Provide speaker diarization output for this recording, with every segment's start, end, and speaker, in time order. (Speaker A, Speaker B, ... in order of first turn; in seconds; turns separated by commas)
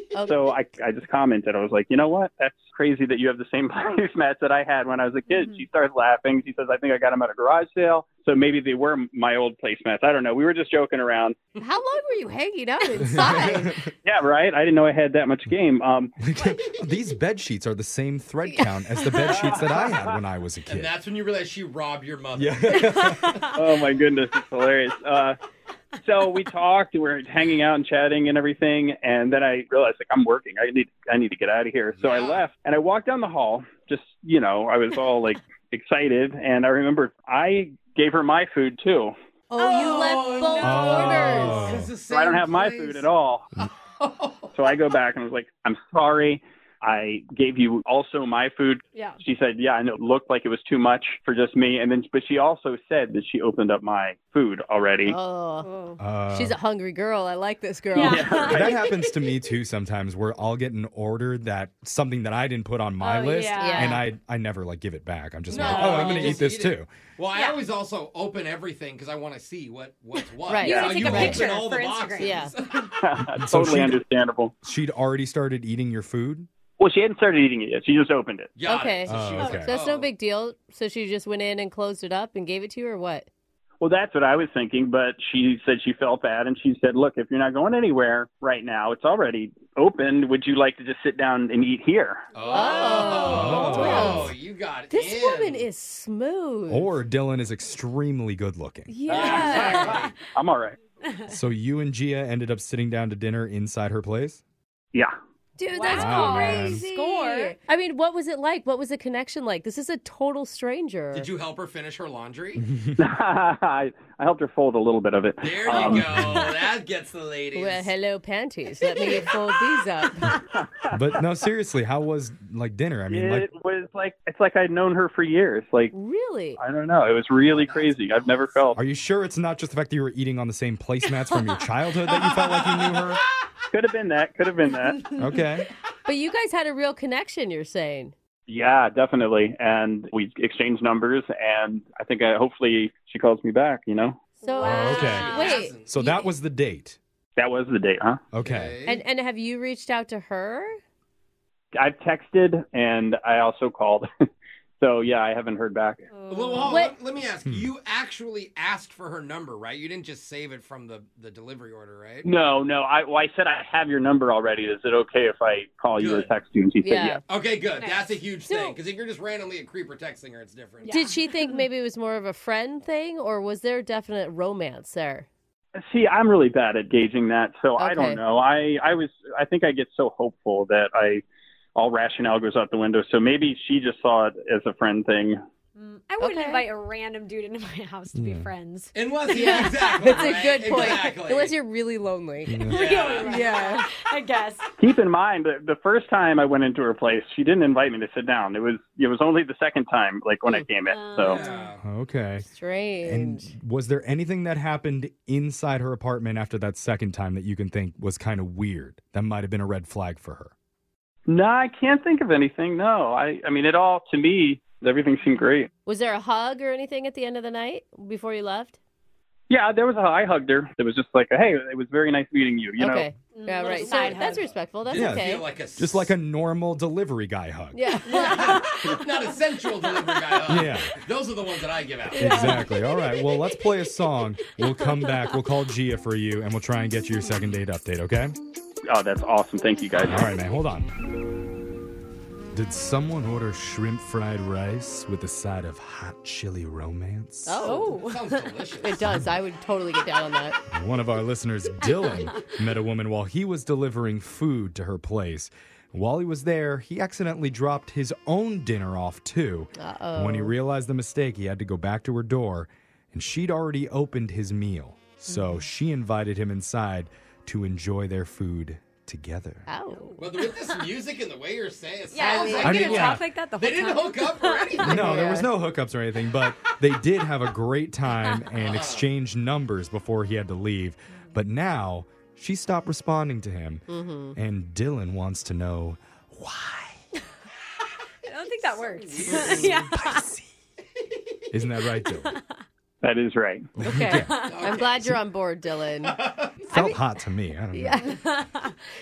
Speaker A: 0.1-0.6, Speaker B: 0.2-11.4, Speaker A: 11.6-13.8, Speaker C: 13.0-13.9, Speaker B: 14.0-16.1, Speaker C: 16.2-20.9, Speaker B: 19.3-19.6, Speaker D: 20.7-23.4, Speaker C: 22.4-23.3, Speaker E: 23.0-23.4, Speaker B: 23.5-25.4, Speaker B: 26.0-39.1, Speaker D: 31.9-32.5, Speaker A: 39.5-41.8, Speaker E: 39.6-41.6, Speaker D: 39.9-43.1, Speaker C: 40.6-41.9, Speaker B: 42.0-43.5, Speaker D: 43.6-44.8, Speaker B: 44.5-55.1, Speaker E: 48.9-49.2, Speaker A: 55.0-55.7, Speaker E: 55.6-56.0, Speaker C: 56.0-56.5, Speaker A: 56.3-58.6, Speaker E: 57.9-59.1, Speaker B: 58.1-58.5, Speaker C: 58.5-66.9, Speaker E: 63.0-64.0, Speaker A: 63.5-64.0, Speaker D: 65.5-72.9, Speaker A: 65.5-66.4, Speaker E: 65.5-66.4, Speaker E: 67.3-67.6, Speaker E: 70.2-72.9, Speaker A: 70.5-71.5, Speaker C: 71.1-71.4, Speaker A: 72.2-72.5, Speaker B: 73.0-74.5, Speaker C: 73.3-74.0, Speaker C: 74.6-76.5, Speaker B: 76.8-78.5, Speaker D: 78.5-80.1, Speaker A: 78.7-83.3, Speaker C: 79.1-79.7, Speaker E: 79.4-79.7, Speaker B: 83.8-92.2, Speaker D: 92.3-95.6, Speaker E: 92.4-93.4, Speaker A: 92.5-94.3, Speaker C: 93.2-94.3, Speaker A: 94.9-96.9, Speaker C: 96.7-98.9, Speaker A: 98.9-100.0, Speaker D: 99.1-100.1, Speaker E: 99.1-100.1, Speaker B: 100.3-100.8, Speaker E: 101.0-101.3, Speaker C: 101.3-104.4, Speaker A: 105.6-111.3, Speaker E: 105.7-107.5, Speaker C: 105.9-106.8, Speaker D: 111.1-112.6, Speaker C: 112.6-113.0, Speaker B: 113.0-116.0, Speaker D: 115.4-117.9, Speaker E: 115.7-116.0, Speaker C: 115.8-116.5, Speaker A: 117.5-120.4, Speaker E: 118.9-119.4, Speaker C: 120.9-123.5, Speaker B: 123.1-125.9, Speaker A: 125.9-126.6, Speaker B: 126.6-128.8, Speaker D: 127.4-128.7, Speaker C: 128.7-133.2, Speaker D: 132.2-133.2, Speaker B: 133.7-135.0, Speaker C: 135.2-135.7, Speaker A: 136.1-138.1, Speaker B: 138.5-144.2, Speaker A: 144.4-146.3, Speaker E: 144.4-145.6, Speaker C: 144.6-145.3, Speaker D: 144.7-145.9, Speaker C: 145.8-147.0, Speaker B: 147.4-148.2, Speaker C: 148.3-148.8, Speaker D: 148.4-149.0, Speaker A: 148.8-150.8, Speaker B: 151.8-154.1, Speaker B: 154.8-156.1, Speaker E: 156.1-156.9, Speaker D: 156.3-162.3, Speaker A: 156.6-156.9, Speaker C: 157.4-157.7, Speaker B: 162.2-167.2, Speaker D: 165.9-166.3, Speaker A: 166.8-167.2, Speaker D: 167.3-171.0, Speaker E: 167.8-168.2, Speaker A: 168.4-168.8, Speaker E: 170.8-171.7, Speaker A: 170.9-175.3, Speaker B: 175.8-181.2, Speaker A: 177.8-178.2, Speaker B: 181.8-185.4, Speaker E: 185.8-191.0, Speaker A: 186.2-186.6, Speaker C: 188.1-188.5, Speaker D: 188.9-191.5, Speaker A: 189.3-192.7, Speaker C: 192.5-192.8, Speaker E: 192.7-194.7, Speaker D: 192.7-193.4, Speaker A: 193.2-193.8, Speaker B: 194.8-201.4, Speaker E: 200.9-201.7, Speaker D: 201.1-201.8, Speaker C: 201.8-202.5, Speaker A: 202.4-203.5, Speaker C: 203.0-210.5, Speaker B: 211.3-215.7, Speaker A: 215.8-218.8, Speaker B: 219.5-223.0, Speaker A: 222.8-225.5, Speaker E: 223.3-224.5, Speaker D: 223.8-226.1, Speaker C: 224.9-227.8, Speaker A: 227.7-228.7, Speaker E: 228.1-229.0, Speaker D: 228.1-232.5, Speaker C: 230.5-230.9, Speaker E: 232.1-232.7, Speaker C: 232.2-238.3, Speaker A: 232.2-232.6, Speaker B: 238.9-240.2, Speaker C: 240.0-240.9, Speaker C: 242.5-247.6, Speaker A: 247.4-248.0, Speaker D: 247.6-249.0, Speaker E: 247.6-248.5, Speaker A: 248.8-250.6, Speaker C: 250.7-269.7, Speaker A: 259.8-260.5, Speaker A: 269.7-270.3, Speaker E: 270.0-270.5, Speaker D: 270.2-275.1, Speaker E: 272.1-275.2, Speaker C: 272.6-273.2, Speaker C: 274.8-287.0, Speaker A: 274.8-275.5, Speaker D: 278.6-279.0, Speaker A: 283.9-284.4, Speaker E: 288.2-290.3, Speaker D: 288.6-289.9, Speaker C: 289.3-290.5, Speaker C: 291.5-292.4, Speaker B: 293.0-293.7, Speaker C: 293.8-294.3, Speaker A: 293.8-296.2, Speaker E: 294.1-294.8, Speaker D: 294.3-295.1, Speaker D: 296.0-296.6, Speaker A: 296.7-297.0, Speaker C: 296.7-298.0, Speaker A: 297.7-298.2, Speaker E: 298.0-298.7